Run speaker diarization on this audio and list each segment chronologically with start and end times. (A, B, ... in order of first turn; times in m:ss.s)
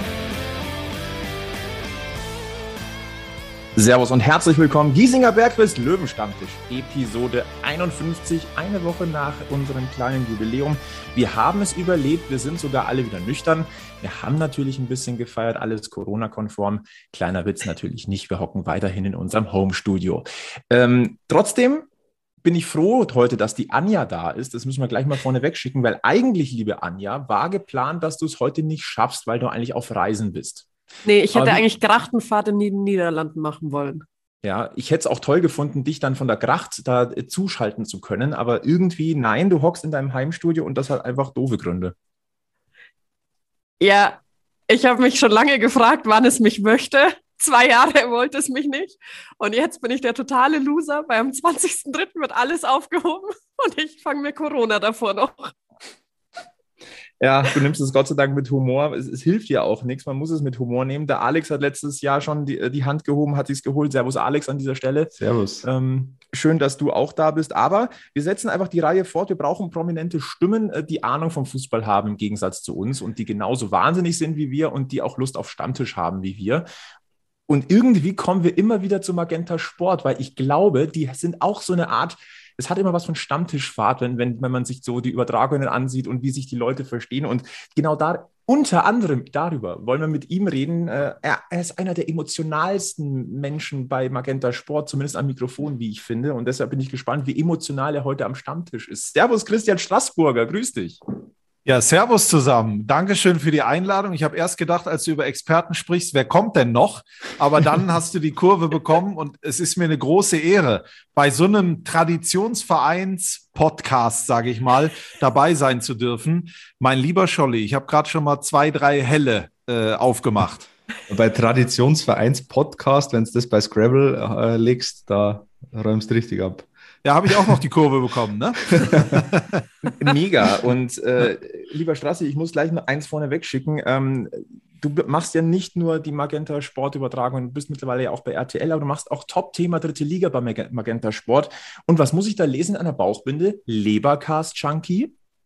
0:03.8-0:21.9 A
0:22.4-0:30.7 A
0:31.0-0:34.0 B
0:31.3-0:31.6 A
0:34.4-0:41.9 A
0:43.8-0:55.5 B
0:57.2-1:16.7 A
1:05.2-1:05.7 C
1:17.5-1:41.0 A
1:41.6-2:00.7 D
2:01.1-2:06.7 C
2:07.0-2:09.6 D
2:09.9-2:25.1 A